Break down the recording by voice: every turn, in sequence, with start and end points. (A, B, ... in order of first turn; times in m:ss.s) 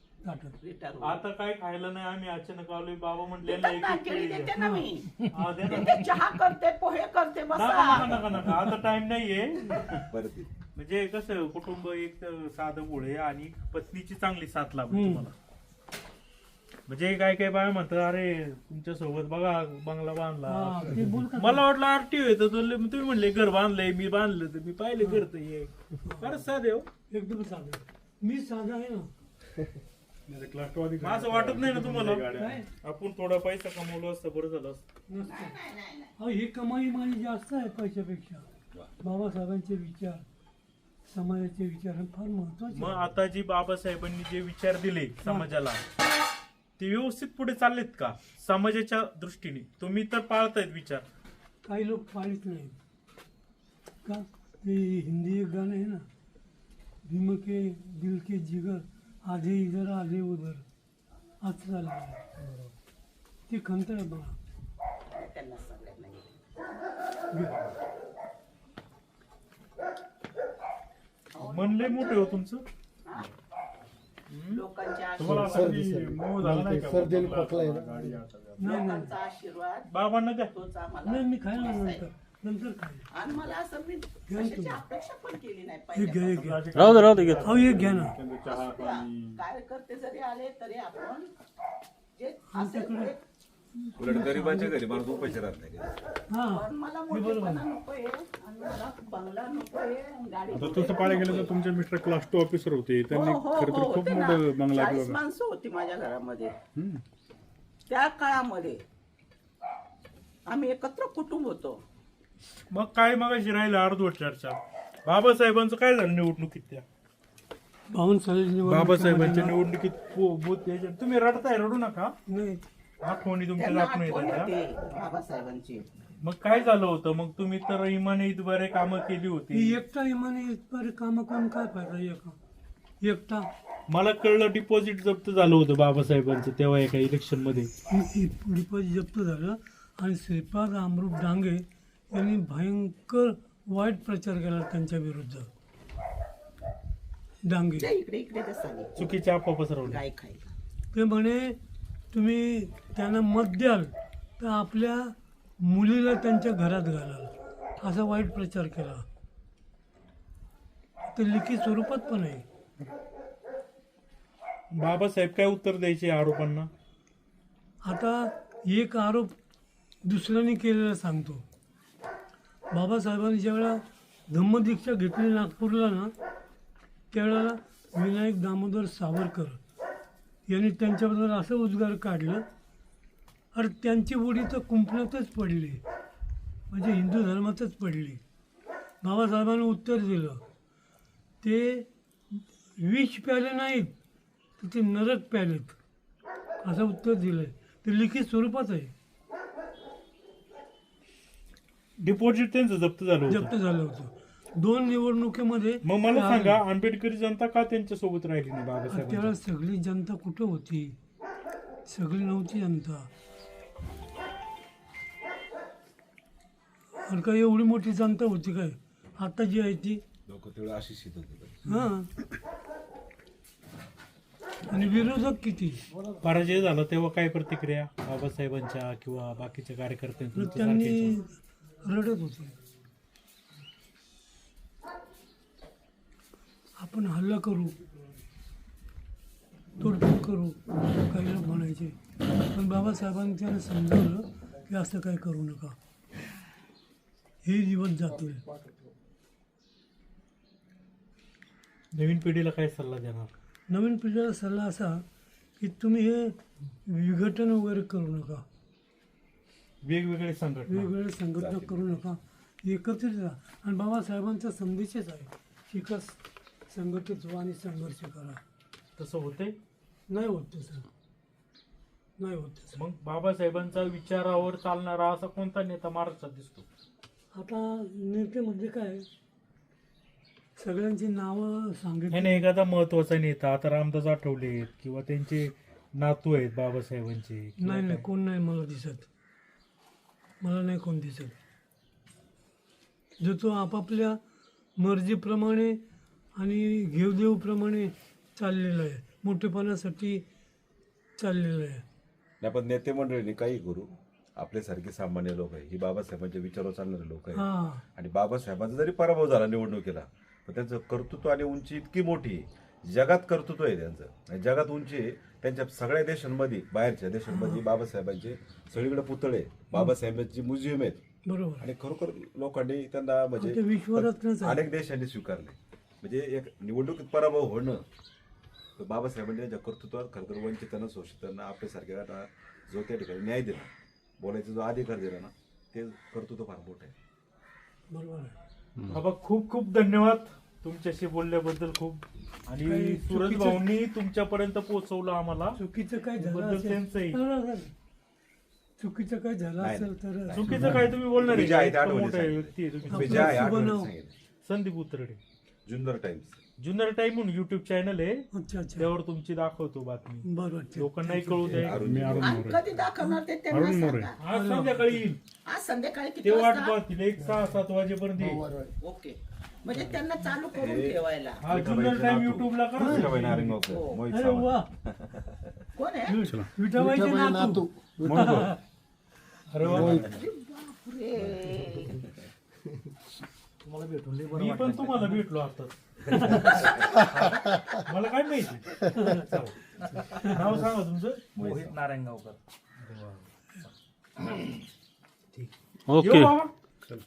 0:00.2-0:00.6 A
0:00.6-0:01.2 B
0:01.0-0:04.5 C
0:03.4-0:08.2 B
0:04.5-0:04.9 A
0:05.3-0:06.2 C
0:07.5-0:10.1 C
0:08.2-0:08.5 D
0:10.0-0:10.5 D
0:10.8-0:15.3 C
0:14.9-0:15.3 A
0:16.9-0:26.9 C
0:20.5-0:21.6 A
0:25.0-0:25.2 A
0:26.0-0:26.4 A
0:27.1-0:29.1 A
0:30.3-0:32.6 E
0:31.0-0:34.8 C
0:32.3-0:32.7 A
0:35.1-0:35.5 A
0:35.3-0:36.1 B
0:36.2-0:38.4 A
0:39.0-0:40.2 A
0:41.1-0:43.1 A
0:42.7-0:45.8 C
0:45.2-0:45.5 A
0:46.8-0:51.0 C
0:51.6-0:52.8 A
0:54.0-0:56.0 A
0:57.0-1:00.6 A
1:01.4-1:02.2 A
1:03.5-1:04.4 A
1:05.1-1:06.3 B
1:07.3-1:07.7 A
1:11.3-1:12.4 B
1:11.4-1:12.6 C
1:13.0-1:13.3 B
1:14.3-1:14.6 C
1:14.5-1:15.6 B
1:15.2-1:18.6 E
1:15.4-1:18.0 F
1:18.6-1:19.1 A
1:18.6-1:19.9 B
1:19.9-1:20.5 C
1:20.5-1:22.0 B
1:21.0-1:23.1 A
1:23.1-1:26.4 B
1:24.3-1:24.8 A
1:25.9-1:28.1 A
1:26.4-1:29.4 E
1:28.4-1:31.3 B
1:32.2-1:33.2 B
1:32.5-1:33.1 A
1:33.8-1:34.8 A
1:34.0-1:36.0 D
1:34.7-1:35.4 B
1:36.3-1:37.6 A
1:36.5-1:41.5 B
1:40.5-1:45.2 E
1:43.1-1:46.5 B
1:46.8-1:47.0 E
1:47.9-1:48.8 B
1:50.5-1:51.8 B
1:52.7-1:56.8 C
1:57.9-1:59.5 A
1:58.6-2:02.1 C
2:02.3-2:02.7 A
2:03.0-2:04.5 C
2:03.6-2:05.8 B
2:06.2-2:09.8 C
2:09.5-2:12.4 A
2:13.0-2:13.5 A
2:13.9-2:17.7 C
2:17.9-2:25.5 A
2:27.4-2:27.9 A
2:27.8-2:29.2 B
2:29.0-2:30.0 C
2:29.8-2:30.5 B
2:30.9-2:31.6 A
2:32.1-2:39.0 A
2:41.1-2:42.4 A
2:44.7-2:46.7 C
2:47.8-2:49.3 A
2:50.0-2:51.4 A
2:52.7-2:56.1 A
2:57.1-2:59.6 A
3:00.5-3:02.4 A
3:03.5-3:05.8 A
3:06.7-3:08.2 A
3:09.0-3:10.4 A
3:11.4-3:13.9 A
3:14.6-3:15.8 A
3:16.6-3:18.9 A
3:22.0-3:23.5 C
3:23.3-3:26.6 A
3:25.8-3:29.3 C
3:28.9-3:31.0 A
3:31.8-3:33.1 A
3:37.0-3:40.0 A
3:40.3-3:41.7 D
3:41.7-3:42.1 A
3:44.7-3:45.8 A
3:46.2-3:51.2 C
3:50.3-3:52.5 A
3:56.8-3:57.7 A
3:59.8-4:05.8 A
4:07.4-4:08.5 A
4:08.5-4:08.9 F
4:11.9-4:13.3 C
4:13.7-4:15.0 A
4:15.6-4:16.4 A
4:16.9-4:18.4 A
4:19.8-4:20.9 C
4:20.7-4:26.2 A
4:21.4-4:22.0 D
4:26.7-4:28.4 A
4:29.0-4:29.5 C
4:30.1-4:30.8 A
4:32.2-4:32.8 A
4:32.7-4:36.6 C
4:37.3-4:39.0 A
4:40.6-4:42.4 A
4:42.1-4:48.0 C
4:47.6-4:49.1 A
4:50.4-4:51.3 A
4:53.2-4:54.2 A
4:54.8-4:55.8 A
4:56.4-5:00.2 A
5:01.2-5:01.8 A
5:02.4-5:21.0 D
5:07.3-5:07.8 A
5:17.3-5:17.6 A
5:21.2-5:21.6 A
5:21.6-5:27.8 D
5:23.4-5:24.6 A
5:28.8-5:33.7 D
5:34.2-5:36.9 D
5:37.9-5:38.3 A
5:38.9-5:45.6 C
5:42.6-5:43.7 A
5:45.6-5:47.7 A
5:46.2-5:47.2 C
5:48.8-5:50.9 A
5:49.6-5:54.1 D
5:50.3-5:53.5 C
5:52.9-5:53.9 A
5:54.4-5:55.2 C
5:55.6-5:56.4 D
5:56.6-5:58.2 C
5:58.3-5:58.9 A
5:58.8-6:00.2 C
6:00.2-6:01.6 A
6:00.8-6:02.5 C
6:01.5-6:02.5 D
6:01.8-6:02.6 E
6:02.1-6:04.2 B
6:03.5-6:05.2 C
6:04.3-6:05.0 A
6:05.4-6:06.8 B
6:06.2-6:08.4 C
6:08.2-6:08.7 F
6:08.8-6:11.4 B
6:10.5-6:15.5 D
6:11.4-6:13.6 C
6:12.8-6:13.1 A
6:13.7-6:14.0 B
6:14.1-6:14.7 A
6:15.7-6:16.2 B
6:16.0-6:18.5 A
6:16.8-6:18.5 F
6:18.2-6:18.5 C
6:19.5-6:20.2 C
6:19.6-6:20.1 F
6:20.1-6:22.0 B
6:21.4-6:21.9 D
6:23.6-6:33.7 C
6:24.1-6:24.9 E
6:26.1-6:26.9 D
6:26.1-6:26.6 A
6:28.9-6:29.3 A
6:31.4-6:31.8 D
6:35.3-6:36.5 C
6:35.9-6:36.4 E